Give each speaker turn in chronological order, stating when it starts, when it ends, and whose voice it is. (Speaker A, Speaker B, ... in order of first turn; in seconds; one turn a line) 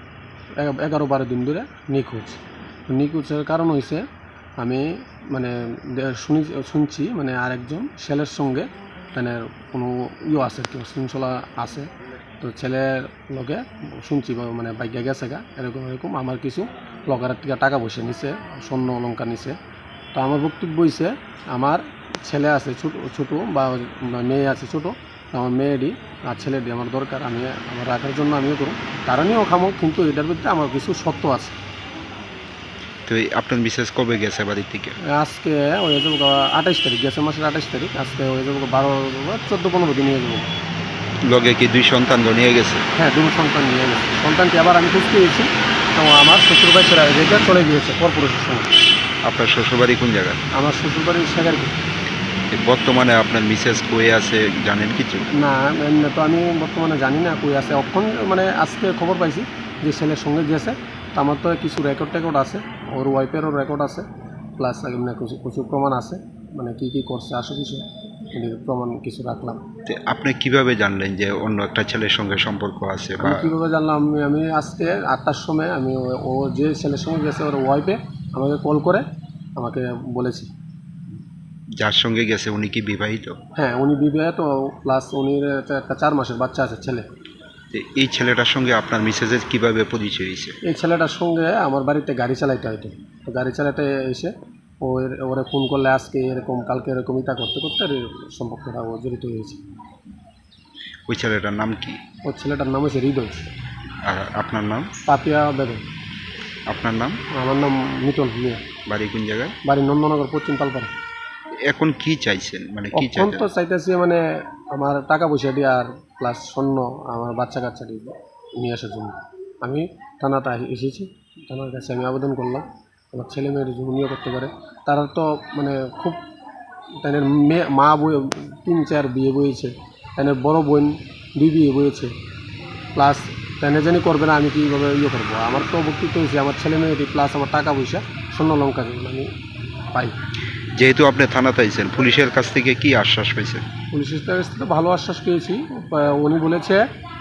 Speaker A: 0.6-4.0
Speaker A: 4.6-19.6
Speaker A: 20.1-31.6
Speaker B: 33.1-35.0
Speaker A: 35.0-40.5
Speaker B: 41.3-42.8
Speaker A: 42.9-48.7
Speaker B: 49.2-50.4
Speaker A: 50.5-51.8
Speaker B: 52.5-55.3
Speaker A: 55.3-64.0
Speaker A: 64.6-69.6
Speaker B: 69.8-73.5
Speaker A: 73.2-79.0
Speaker A: 79.6-80.5
Speaker B: 81.8-83.4
Speaker A: 83.5-87.0
Speaker B: 87.7-90.6
Speaker A: 90.6-99.6
Speaker B: 101.1-102.0
Speaker A: 102.2-103.5
Speaker B: 104.0-104.9
Speaker A: 105.1-105.8
Speaker B: 106.7-107.2
Speaker A: 107.3-108.6
Speaker B: 108.9-109.5
Speaker A: 109.6-110.9
Speaker B: 111.7-113.5
Speaker A: 112.9-126.2
Speaker A: 127.0-132.1
Speaker A: 132.9-139.3
Speaker B: 140.8-143.6
Speaker A: 143.9-146.9